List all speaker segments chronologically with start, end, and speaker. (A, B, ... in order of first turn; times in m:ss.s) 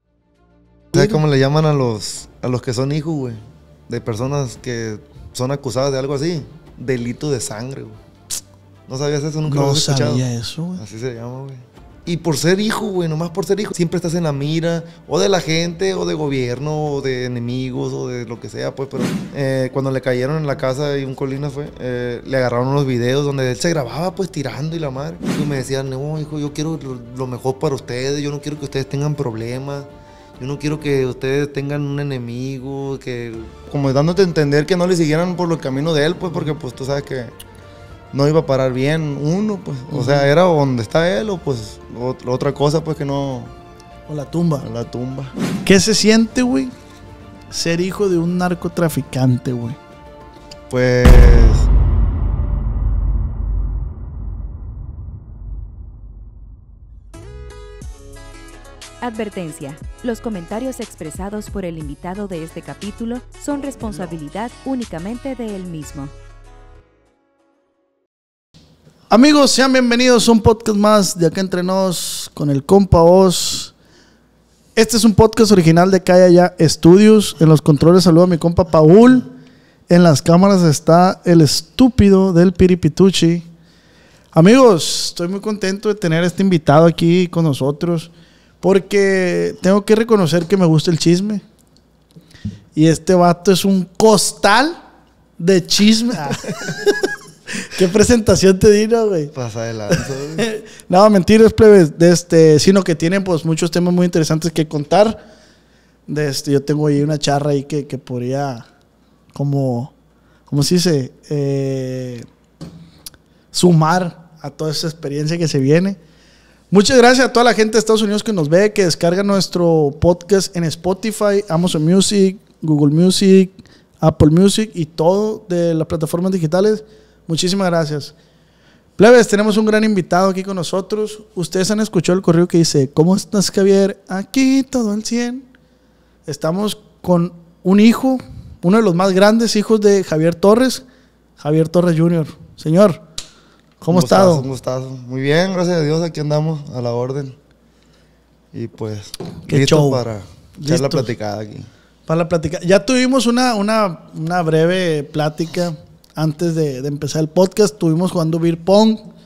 0:00.9-0:01.2 A
0:00.9-0:08.0 B
0:08.9-0:10.2 B
0:09.5-0:10.8 A
0:10.8-0:29.9 B
0:30.4-0:37.3 B
0:38.1-0:43.5 B
0:39.9-0:40.3 A
0:44.1-0:44.7 A
0:44.6-0:45.3 B
0:45.6-0:46.7 A
0:47.5-0:49.8 A
0:50.7-0:51.7 B
0:59.0-1:06.1 C
1:09.1-1:13.7 A
1:14.8-1:19.3 A
1:19.9-1:23.5 A
1:24.3-1:31.4 A
1:32.8-1:34.8 A
1:35.4-1:39.3 A
1:39.3-1:40.4 B
1:39.9-1:45.2 A
1:46.1-1:48.7 A
1:49.3-1:49.9 A
1:50.5-1:52.3 A
1:53.5-1:56.0 A
1:56.7-2:08.1 A
2:09.0-2:15.4 A
2:16.3-2:20.8 A
2:21.4-2:23.0 A
2:23.8-2:24.5 A
2:23.9-2:27.4 B
2:28.5-2:31.7 B
2:29.5-2:30.0 A
2:30.6-2:31.1 A
2:32.1-2:39.1 A